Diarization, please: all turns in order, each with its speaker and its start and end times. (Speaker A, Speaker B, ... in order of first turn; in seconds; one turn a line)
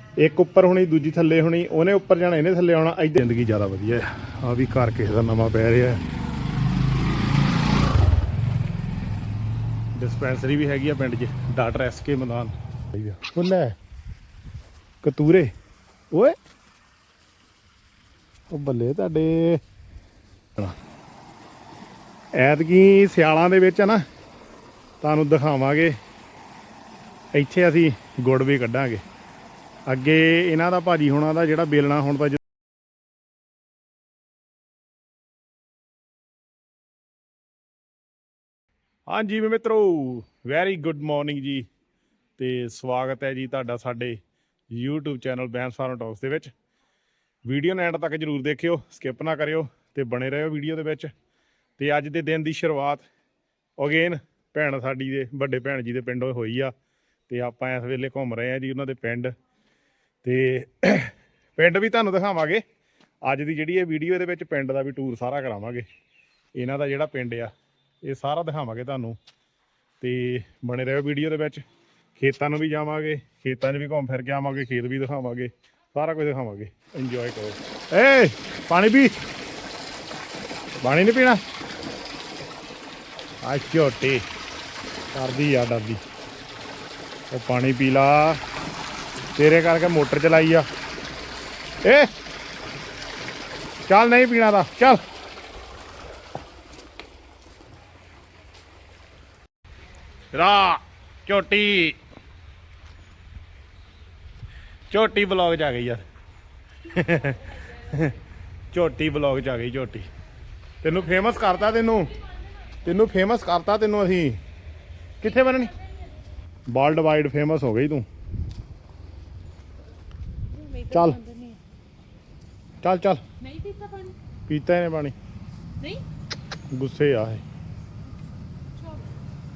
Speaker A: 0.2-6.0
Speaker A: 9.9-13.7
Speaker A: 15.0-15.5
Speaker A: 16.1-16.4
Speaker A: 18.5-19.6
Speaker A: 22.4-24.0
Speaker A: 25.0-25.9
Speaker A: 27.3-29.0
Speaker A: 29.9-32.4
Speaker A: 39.1-41.6
Speaker A: 42.4-44.2
Speaker A: 44.7-46.5
Speaker A: 47.5-51.1
Speaker A: 51.8-53.0
Speaker A: 53.8-56.7
Speaker A: 57.3-59.3
Speaker A: 60.2-62.6
Speaker A: 63.2-65.8
Speaker A: 66.5-67.5
Speaker A: 68.0-69.2
Speaker A: 70.0-71.6
Speaker A: 72.2-79.2
Speaker A: 80.8-81.4
Speaker A: 83.4-84.2
Speaker A: 85.1-86.0
Speaker A: 87.3-88.4
Speaker A: 89.3-90.7
Speaker A: 91.8-92.1
Speaker A: 93.9-95.0
Speaker A: 100.3-102.0
Speaker A: 104.9-106.0
Speaker A: 106.9-108.2
Speaker A: 108.7-110.1
Speaker A: 110.8-112.2
Speaker A: 112.8-114.4
Speaker A: 115.2-115.8
Speaker A: 116.7-118.0
Speaker B: 120.5-121.6
Speaker A: 120.9-121.2
Speaker A: 122.8-123.2
Speaker B: 123.4-124.2
Speaker A: 124.5-125.2
Speaker A: 126.7-127.4
Speaker B: 128.8-129.1